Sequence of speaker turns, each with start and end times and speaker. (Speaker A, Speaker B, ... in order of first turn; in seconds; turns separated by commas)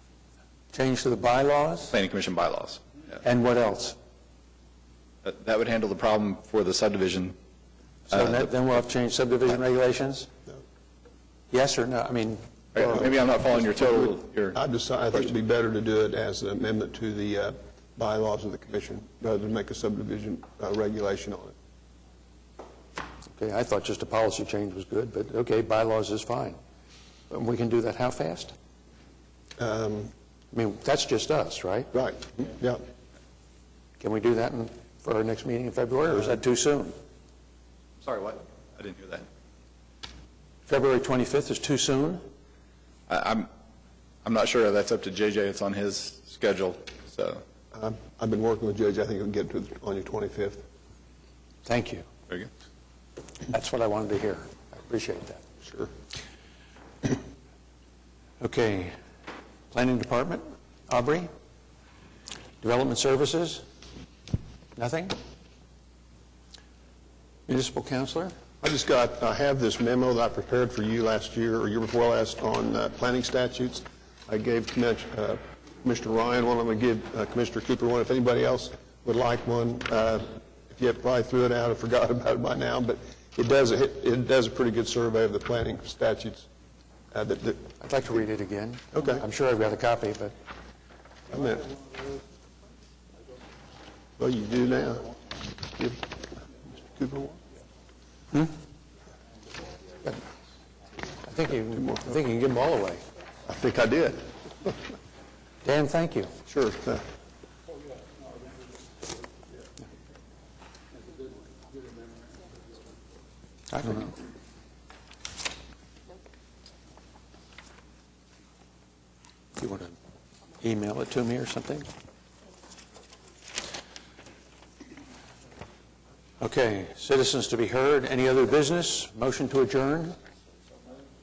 Speaker A: 0.7-1.9, Speaker B: 1.9-2.8, Speaker A: 3.2-4.0, Speaker B: 5.2-7.4, Speaker B: 8.1-8.6, Speaker A: 8.1-10.3, Speaker A: 11.5-13.1, Speaker B: 12.8-14.6, Speaker C: 12.8-21.5, Speaker A: 23.4-26.6, Speaker A: 27.3-28.5, Speaker C: 29.6-30.1, Speaker A: 30.5-31.9, Speaker C: 31.9-32.8, Speaker A: 34.0-37.0, Speaker B: 38.0-39.3, Speaker A: 40.7-42.3, Speaker B: 43.1-43.5, Speaker B: 44.2-47.4, Speaker C: 47.7-50.6, Speaker A: 51.7-52.1, Speaker A: 53.5-55.4, Speaker C: 55.6-55.9, Speaker A: 58.4-58.9, Speaker A: 59.7-61.3, Speaker A: 62.6-63.6, Speaker A: 64.8-65.2, Speaker A: 67.5-68.3, Speaker C: 68.6-86.5, Speaker C: 87.1-88.1, Speaker A: 87.8-90.3, Speaker C: 88.9-89.2, Speaker C: 91.3-91.7, Speaker C: 94.2-97.4, Speaker A: 101.2-103.0, Speaker C: 103.5-104.8, Speaker A: 105.6-106.3, Speaker C: 106.5-107.0, Speaker A: 113.7-114.2, Speaker A: 119.6-120.0, Speaker A: 120.6-121.9, Speaker A: 126.4-130.2